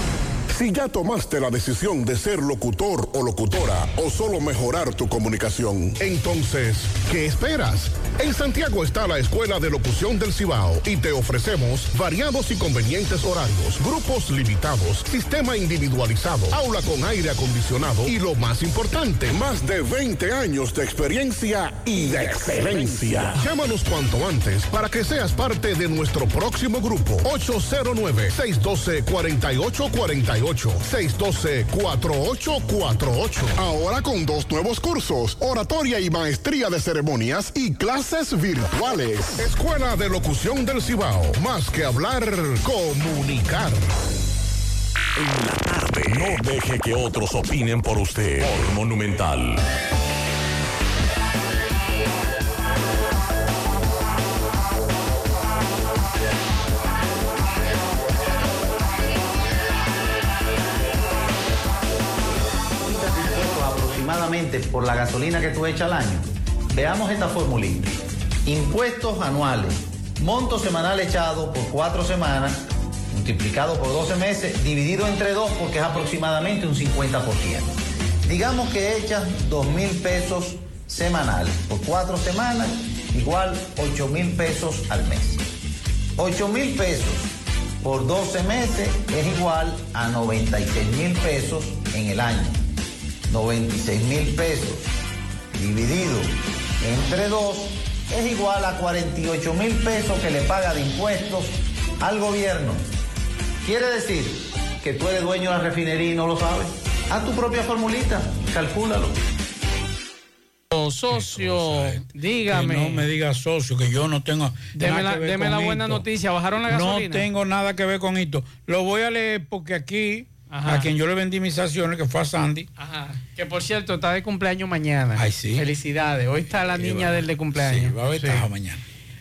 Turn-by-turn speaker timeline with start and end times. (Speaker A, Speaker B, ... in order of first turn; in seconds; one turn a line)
Speaker A: 0.5-43.9
Speaker B: 45.2-49.6
Speaker C: 62.9-67.9
Speaker C: 68.5-72.5
Speaker C: 73.1-77.6
Speaker C: 78.3-85.4
Speaker C: 86.2-87.2
Speaker C: 87.8-92.6
Speaker C: 93.3-94.8
Speaker C: 95.6-96.2
Speaker C: 96.8-101.5
Speaker C: 102.0-102.8
Speaker C: 103.7-109.1
Speaker D: 110.7-113.1
Speaker E: 111.1-116.1
Speaker D: 114.8-117.3
Speaker E: 116.6-122.7
Speaker D: 120.5-120.9
Speaker D: 122.8-128.4
Speaker E: 125.2-125.7
Speaker E: 126.6-128.8